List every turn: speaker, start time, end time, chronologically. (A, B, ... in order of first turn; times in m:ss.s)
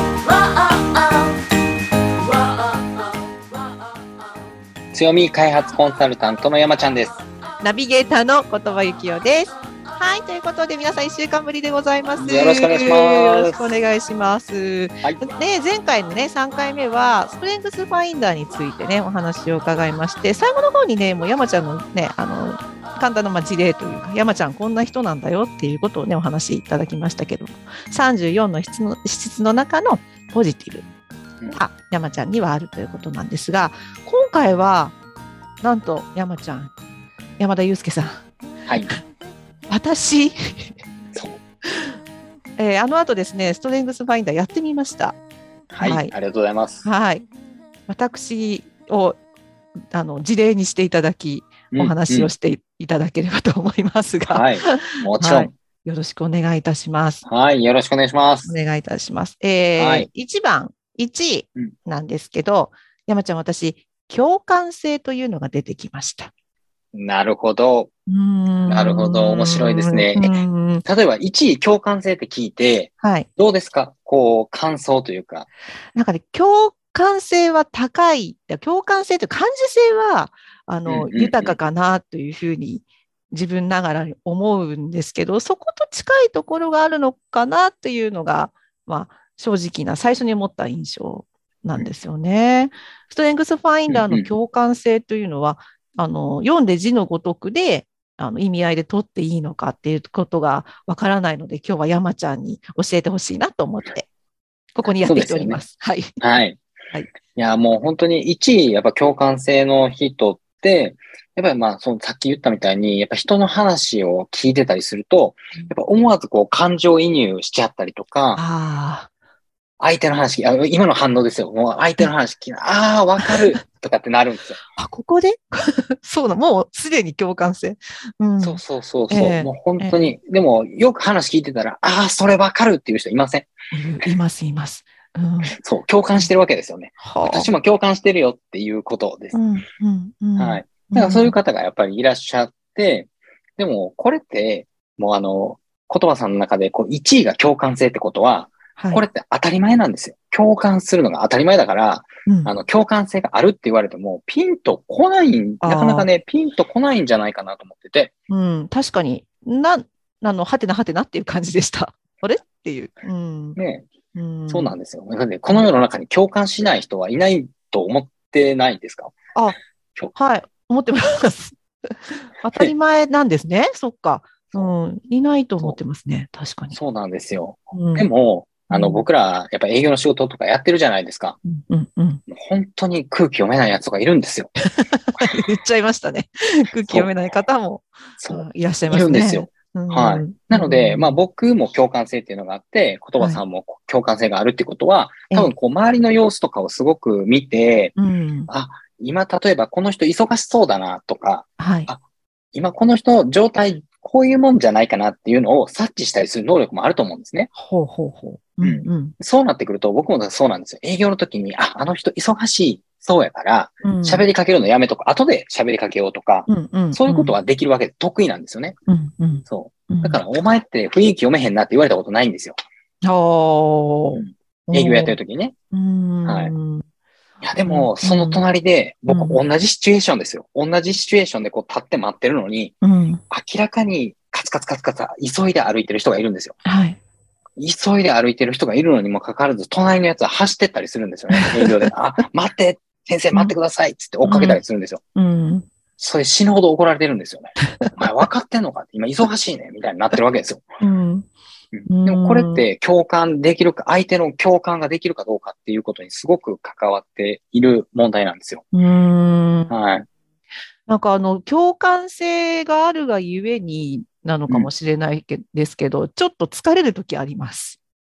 0:04.9-0:07.2 A
0:07.6-0:30.9 B
0:12.2-0:13.7 A
0:31.5-0:34.9 B
0:35.6-0:36.7 B
0:37.4-0:38.2 B
0:39.7-0:40.7 B
0:41.1-0:41.4 A
0:42.6-0:45.2 B
0:45.7-0:46.8 A
0:45.8-0:46.1 B
0:46.8-0:47.2 B
0:47.9-0:49.2 B
0:49.9-0:57.2 B
0:51.7-0:52.3 A
0:54.3-0:55.5 A
0:57.2-0:58.5 A
0:58.4-1:06.3 B
0:59.8-1:00.1 A
1:06.9-1:07.9 A
1:08.1-1:10.8 B
1:08.7-1:15.5 A
1:13.0-1:13.3 B
1:15.9-1:44.1 B
1:20.9-1:21.6 A
1:33.9-1:34.3 A
1:44.7-1:46.1 B
1:44.9-1:45.6 A
1:46.2-1:46.6 A
1:47.3-1:58.4 A
1:58.4-1:59.1 B
1:59.8-2:04.6 A
2:03.2-2:03.6 B
2:04.8-2:10.0 B
2:08.4-2:13.5 A
2:13.7-2:15.5 B
2:15.5-2:19.4 A
2:17.0-2:17.5 B
2:19.3-2:21.3 B
2:20.4-2:38.1 A
2:28.8-2:29.0 B
2:32.2-2:32.5 B
2:35.6-2:36.1 B
2:38.3-2:43.6 B
2:43.6-2:43.9 A
2:44.1-2:44.7 B
2:44.5-2:49.1 A
2:50.1-2:56.8 B
2:56.7-3:01.4 A
2:57.7-2:58.1 B
2:58.7-2:59.0 B
3:01.4-3:02.2 B
3:02.3-3:04.5 A
3:04.7-3:11.2 B
3:06.8-3:07.2 A
3:08.2-3:17.9 A
3:18.0-3:18.5 B
3:18.5-3:22.0 A
3:21.6-3:21.9 B
3:22.5-3:27.5 A
3:27.5-3:29.1 B
3:28.6-3:38.8 A
3:33.8-3:34.2 B
3:36.5-3:37.4 B
3:38.9-3:40.2 B
3:39.5-3:42.6 A
3:43.0-3:45.2 B
3:44.1-3:45.5 A
3:45.7-3:46.8 B
3:46.2-3:46.5 A
3:47.4-3:52.7 A
3:47.6-3:48.4 B
3:49.1-3:49.4 B
3:52.8-3:53.2 B
3:53.3-3:56.6 A
3:56.6-3:57.0 B
3:57.6-4:05.0 A
4:01.3-4:01.9 B
4:04.2-4:04.6 B
4:05.2-4:05.7 B
4:06.0-4:10.7 A
4:10.8-4:11.3 B
4:11.7-4:18.6 A
4:11.9-4:12.6 B
4:18.7-4:19.7 B
4:19.7-4:20.0 A
4:20.9-4:27.8 B